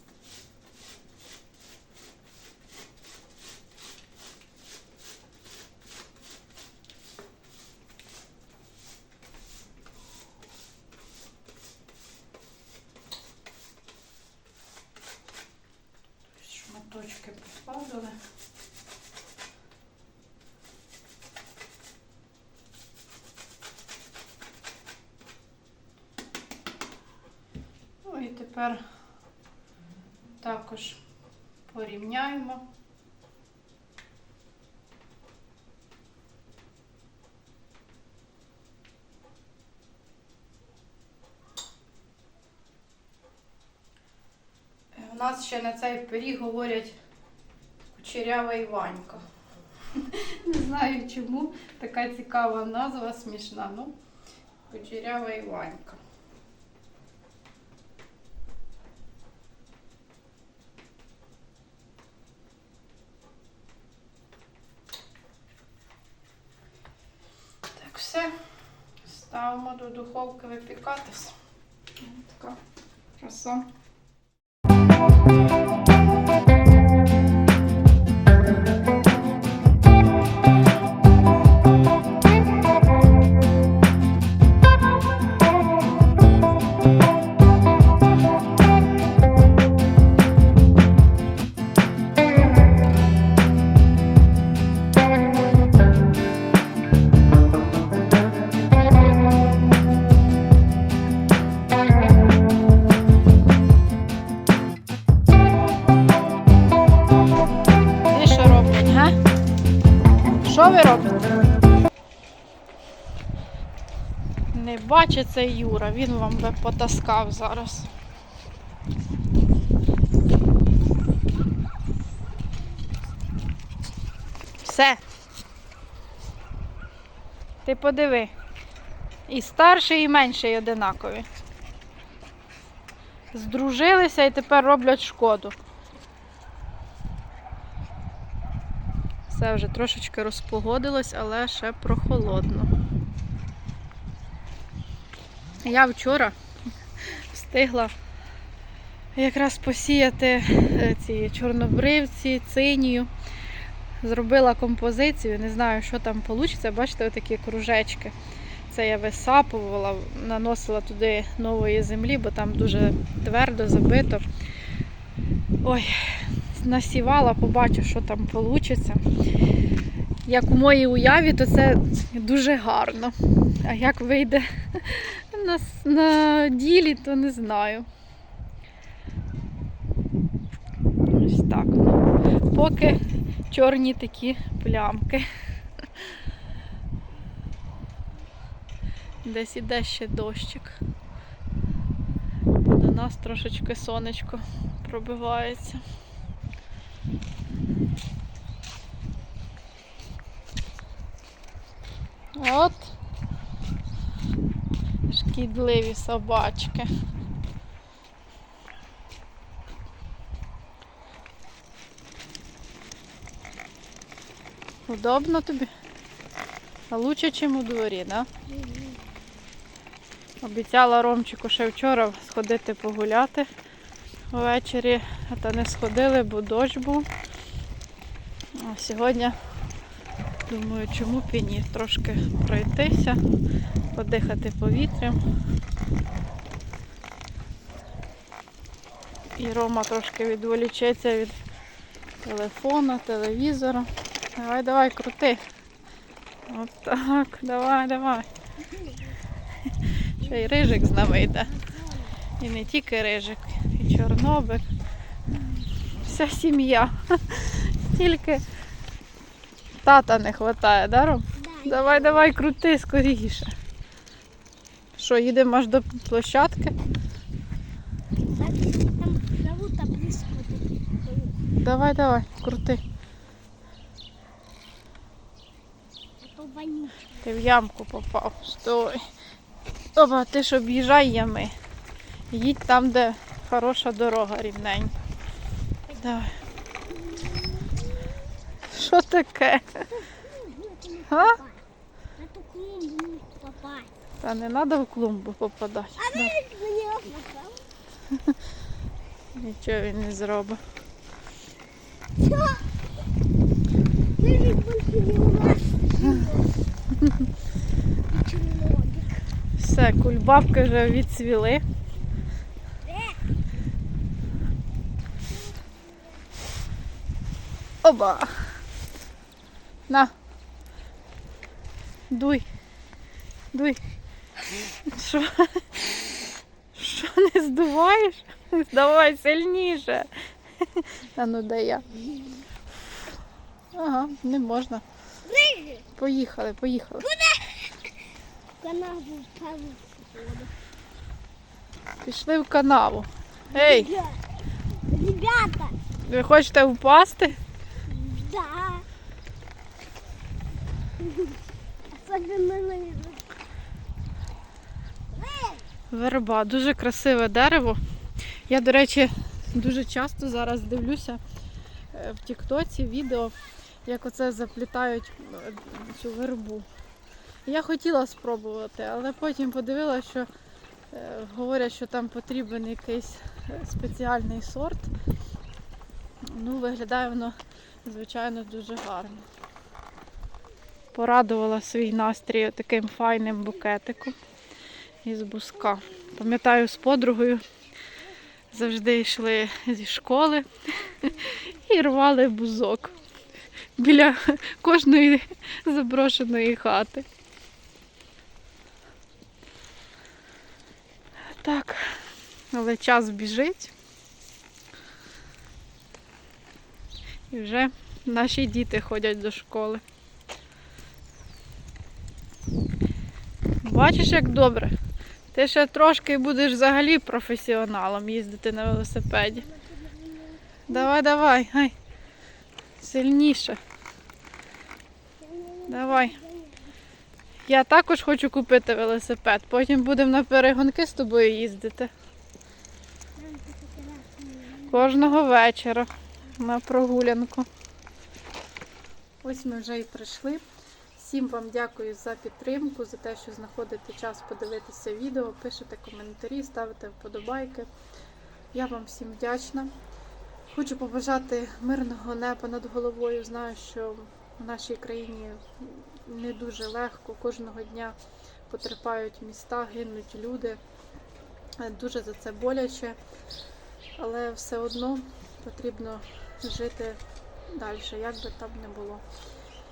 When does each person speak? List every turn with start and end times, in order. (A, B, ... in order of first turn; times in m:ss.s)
0:16.4-0:18.2 A
0:28.0-0:28.8 A
0:30.4-0:31.0 A
0:31.7-0:32.6 A
0:44.9-0:47.0 A
0:47.9-0:49.2 A
0:50.0-0:54.0 A
0:54.7-0:56.0 A
1:07.7-1:08.3 A
1:09.0-1:11.4 A
1:12.0-1:12.6 A
1:13.2-1:13.7 A
1:48.0-1:49.2 A
1:50.4-1:51.3 A
1:54.5-1:57.9 A
2:04.6-2:05.0 A
2:07.6-2:08.3 A
2:09.3-2:11.3 A
2:13.3-2:15.6 A
2:19.3-2:22.7 A
2:25.6-2:26.4 A
2:27.1-2:27.9 A
2:29.2-2:33.1 A
2:34.0-2:38.2 A
2:38.7-2:44.3 A
2:45.6-2:49.1 A
2:50.3-2:57.9 A
3:01.1-3:05.3 A
3:09.2-3:10.8 A
3:12.6-3:15.8 A
3:22.4-3:22.9 A
3:25.1-3:26.9 A
3:34.9-3:35.7 A
3:36.9-3:38.3 A
3:38.6-3:39.0 B
3:40.4-3:43.5 A
3:44.3-3:47.1 A
3:48.5-3:49.4 A
3:50.5-3:53.2 A
3:53.9-3:55.2 A
3:59.4-4:01.4 A
4:02.2-4:05.4 A
4:06.5-4:08.3 A
4:09.7-4:11.6 A
4:11.3-4:12.2 B
4:12.4-4:14.7 A
4:15.8-4:18.5 A
4:19.8-4:23.5 A
4:21.4-4:22.4 B
4:25.0-4:26.8 A
4:28.3-4:31.4 B
4:31.6-4:32.8 A
4:36.2-4:37.2 B
4:37.2-4:39.1 A
4:39.9-4:41.6 A
4:42.3-4:44.9 A
4:45.9-4:46.4 A
4:46.9-4:47.9 B
4:48.6-4:49.9 A
4:50.1-4:51.6 B
4:51.1-4:51.4 A
4:52.2-4:53.9 B
4:54.2-4:56.4 A
4:56.0-4:57.7 B
4:59.3-5:00.6 A
5:02.2-5:02.7 B
5:04.2-5:06.5 B
5:08.1-5:09.2 B
5:09.6-5:11.6 A
5:12.8-5:13.2 B
5:17.8-5:18.6 A
5:22.1-5:22.5 A
5:23.5-5:23.8 A
5:24.7-5:26.1 A
5:26.7-5:31.9 A
5:33.7-5:34.8 A
5:35.3-5:35.8 B
5:36.0-5:37.2 A
5:37.1-5:37.7 B
5:38.6-5:40.5 B
5:42.0-5:43.9 A
5:43.5-5:44.2 B
5:44.8-5:45.8 B
5:46.0-5:47.4 A
5:47.9-5:48.9 B
5:51.0-5:51.4 B
5:51.9-5:53.3 B
5:55.1-5:55.6 B
5:55.9-5:57.8 A
5:58.3-6:01.2 A
6:01.9-6:06.7 A
6:07.5-6:10.3 A
6:10.9-6:14.9 A
6:16.2-6:19.3 A
6:20.9-6:24.2 A
6:25.0-6:27.4 A
6:28.5-6:33.0 A
6:33.8-6:37.1 A
6:41.3-6:42.0 A
6:42.5-6:43.7 A
6:47.3-6:49.8 A
6:53.6-6:54.8 A
6:55.3-6:59.5 A
6:59.5-7:00.6 B
7:00.7-7:01.7 A
7:02.8-7:03.6 A
7:05.2-7:06.7 B
7:05.7-7:06.2 A
7:07.5-7:11.9 A
7:13.2-7:14.8 B
7:14.7-7:17.5 A
7:19.2-7:20.4 A
7:21.0-7:27.7 A
7:28.5-7:29.7 A
7:30.5-7:38.0 A
7:38.5-7:40.6 A
7:41.6-7:43.0 A
7:44.0-7:49.0 A